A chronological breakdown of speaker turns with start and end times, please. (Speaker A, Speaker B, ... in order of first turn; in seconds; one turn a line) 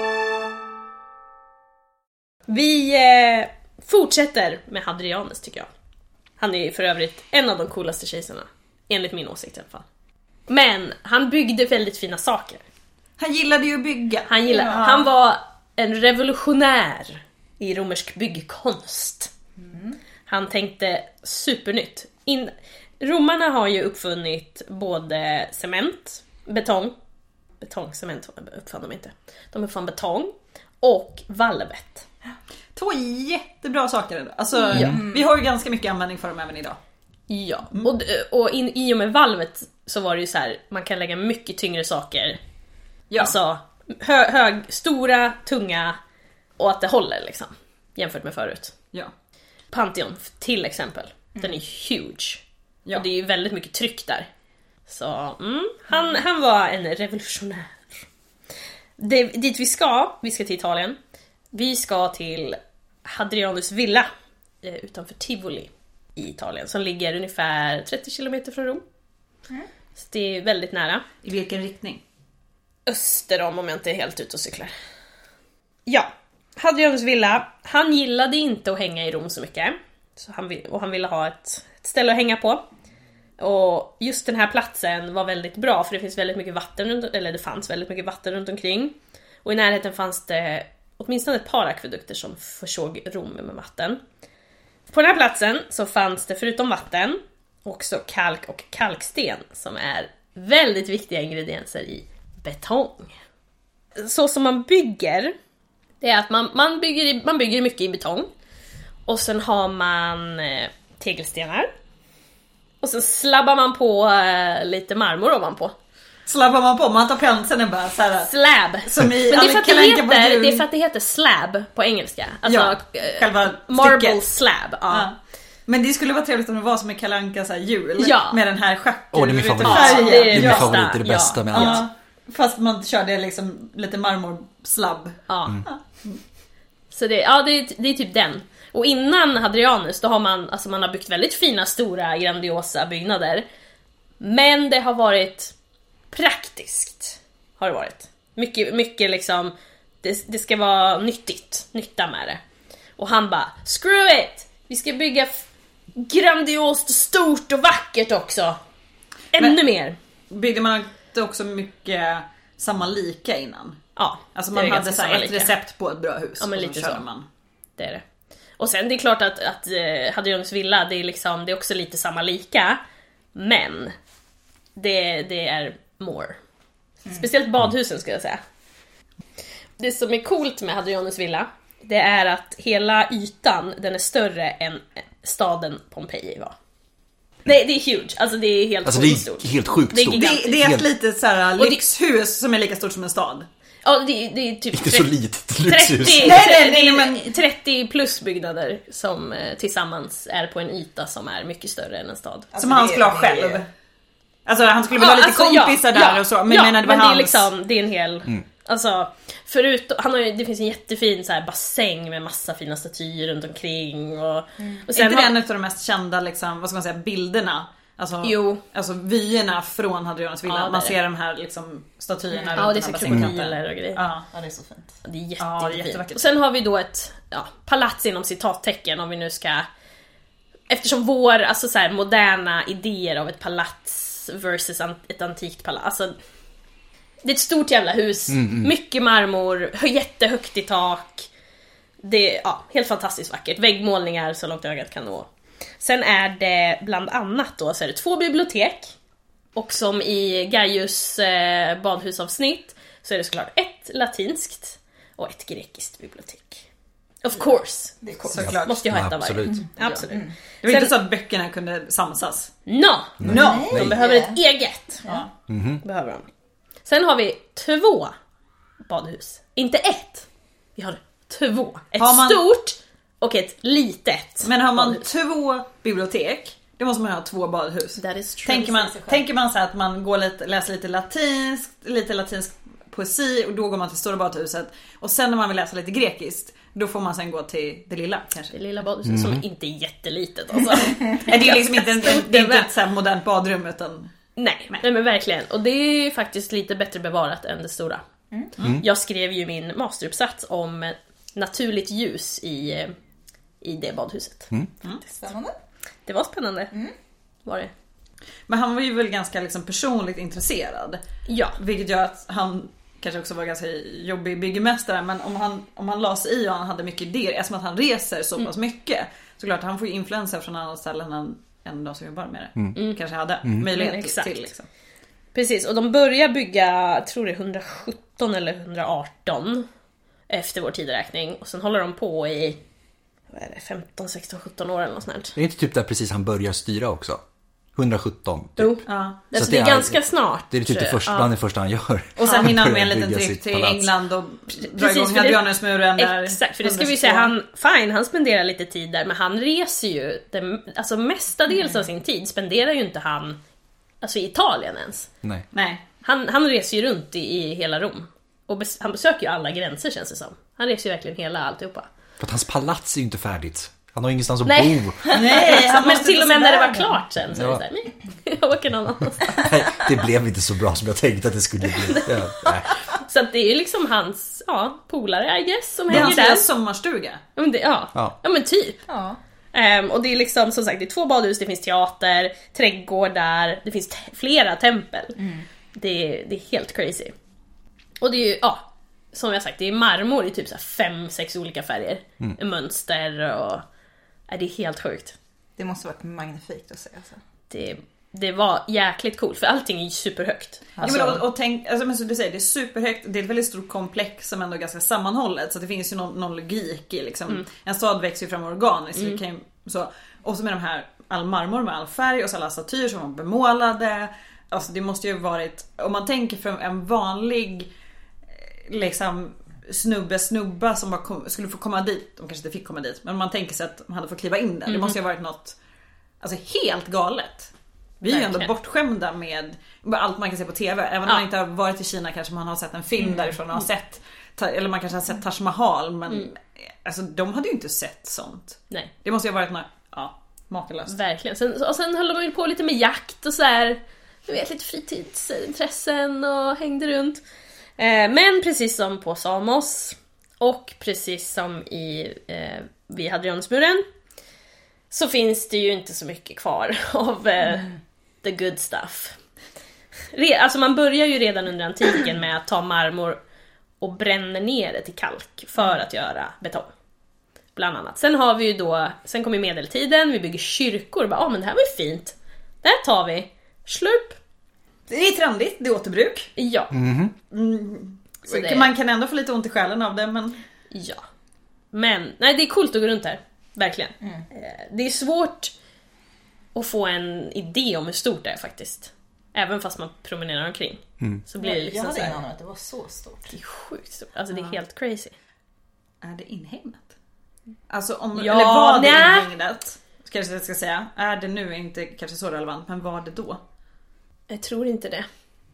Speaker A: 2.5-5.7
Speaker A: 6.4-9.8
Speaker A: 10.5-12.6
Speaker B: 13.2-15.1
Speaker A: 14.3-19.3
Speaker A: 20.3-26.9
Speaker A: 27.6-32.1
Speaker B: 32.8-36.8
Speaker A: 34.7-35.0
Speaker C: 34.9-35.2
Speaker A: 37.3-42.4
Speaker B: 43.1-43.4
Speaker A: 43.2-46.0
Speaker A: 46.6-48.7
Speaker A: 49.7-52.4
Speaker A: 52.9-54.3
Speaker A: 54.9-58.0
Speaker A: 59.0-61.0
Speaker A: 61.5-64.1
Speaker A: 64.6-68.8
Speaker A: 70.0-71.0
Speaker B: 71.2-72.0
Speaker A: 72.9-74.7
Speaker A: 75.9-82.6
Speaker A: 83.4-94.0
Speaker A: 94.9-103.1
Speaker A: 104.0-105.3
Speaker A: 106.0-108.3
Speaker A: 109.1-111.7
Speaker A: 112.8-115.8
Speaker B: 116.3-118.3
Speaker A: 118.2-125.1
Speaker B: 118.8-120.7
Speaker B: 122.5-124.2
Speaker B: 124.9-125.2
Speaker B: 125.7-135.8
Speaker A: 128.0-128.4
Speaker D: 129.1-131.9
Speaker A: 129.6-131.9
Speaker A: 135.3-135.6
Speaker A: 136.9-143.4
Speaker A: 144.2-145.5
Speaker A: 146.1-152.4
Speaker A: 153.0-158.6
Speaker A: 159.3-160.0
Speaker B: 160.3-163.8
Speaker A: 164.0-165.5
Speaker B: 164.3-167.3
Speaker A: 166.4-167.0
Speaker A: 167.8-168.0
Speaker A: 168.6-172.8
Speaker A: 173.3-173.9
Speaker A: 174.8-176.4
Speaker A: 177.1-178.4
Speaker A: 179.8-186.6
Speaker A: 187.4-190.8
Speaker D: 188.8-190.9
Speaker B: 190.1-193.5
Speaker A: 193.8-202.5
Speaker D: 194.7-196.4
Speaker B: 196.1-197.3
Speaker C: 202.5-203.6
Speaker B: 202.6-203.7
Speaker B: 204.5-207.5
Speaker A: 205.0-215.4
Speaker B: 214.9-224.3
Speaker A: 218.2-218.6
Speaker A: 220.5-221.0
Speaker C: 222.4-222.7
Speaker A: 222.6-224.0
Speaker D: 223.1-223.3
Speaker C: 224.3-225.0
Speaker A: 225.1-229.7
Speaker B: 225.4-226.3
Speaker A: 230.7-236.2
Speaker A: 237.2-241.3
Speaker D: 238.3-238.7
Speaker A: 242.0-248.9
Speaker A: 249.6-256.7
Speaker A: 257.2-260.9
Speaker C: 258.0-258.5
Speaker B: 258.2-258.9
Speaker D: 258.4-259.7
Speaker C: 259.5-260.3
Speaker B: 260.6-262.5
Speaker A: 262.7-265.2
Speaker D: 263.2-264.0
Speaker B: 263.2-263.7
Speaker C: 263.3-264.4
Speaker D: 265.5-265.8
Speaker A: 265.8-266.3
Speaker A: 266.9-268.1
Speaker A: 268.9-275.1
Speaker B: 272.0-272.4
Speaker B: 274.4-288.5
Speaker A: 278.0-278.7
Speaker C: 278.5-279.2
Speaker A: 288.5-292.7
Speaker D: 289.1-289.4
Speaker B: 291.2-294.1
Speaker A: 294.4-298.0
Speaker D: 298.6-298.9
Speaker A: 298.7-302.9
Speaker A: 303.6-304.5
Speaker C: 305.0-305.5
Speaker A: 306.1-306.7
Speaker A: 307.5-307.7
Speaker B: 308.5-311.0
Speaker A: 311.3-311.6
Speaker B: 311.6-324.7
Speaker A: 323.7-324.5
Speaker A: 325.3-329.7
Speaker A: 330.3-332.6
Speaker A: 333.3-335.3
Speaker D: 335.4-337.2
Speaker D: 337.8-343.9
Speaker A: 338.6-341.3
Speaker B: 338.9-339.2
Speaker B: 342.2-347.3
Speaker A: 342.2-342.5
Speaker A: 344.6-353.4
Speaker A: 354.0-355.1
Speaker B: 355.5-355.8
Speaker A: 356.0-361.9
Speaker D: 362.2-365.0
Speaker A: 364.4-369.4
Speaker B: 365.1-367.0
Speaker D: 367.3-367.6
Speaker D: 369.4-372.8
Speaker A: 371.7-376.5
Speaker B: 375.9-377.2
Speaker A: 377.4-378.8
Speaker C: 378.9-379.2
Speaker A: 379.5-385.2
Speaker C: 385.2-385.4
Speaker A: 385.8-387.1
Speaker A: 388.0-393.6
Speaker A: 394.3-395.2
Speaker C: 395.6-397.2
Speaker A: 397.5-401.1
Speaker C: 400.8-401.2
Speaker B: 400.8-417.7
Speaker B: 418.7-425.6
Speaker A: 424.7-425.0
Speaker B: 426.2-441.0
Speaker A: 428.1-428.5
Speaker A: 440.9-447.2
Speaker A: 447.8-453.9
Speaker A: 454.9-459.2
Speaker A: 460.1-463.2
Speaker A: 463.8-466.7
Speaker A: 467.6-474.2
Speaker B: 474.9-476.3
Speaker A: 476.4-476.7
Speaker D: 476.7-477.1
Speaker B: 477.3-480.4
Speaker A: 478.3-478.7
Speaker A: 480.7-481.0
Speaker A: 481.7-485.5
Speaker A: 486.6-492.2
Speaker C: 491.4-493.4
Speaker A: 493.3-495.1
Speaker B: 496.0-496.9
Speaker B: 497.7-503.4
Speaker A: 498.2-499.3
Speaker A: 504.3-505.1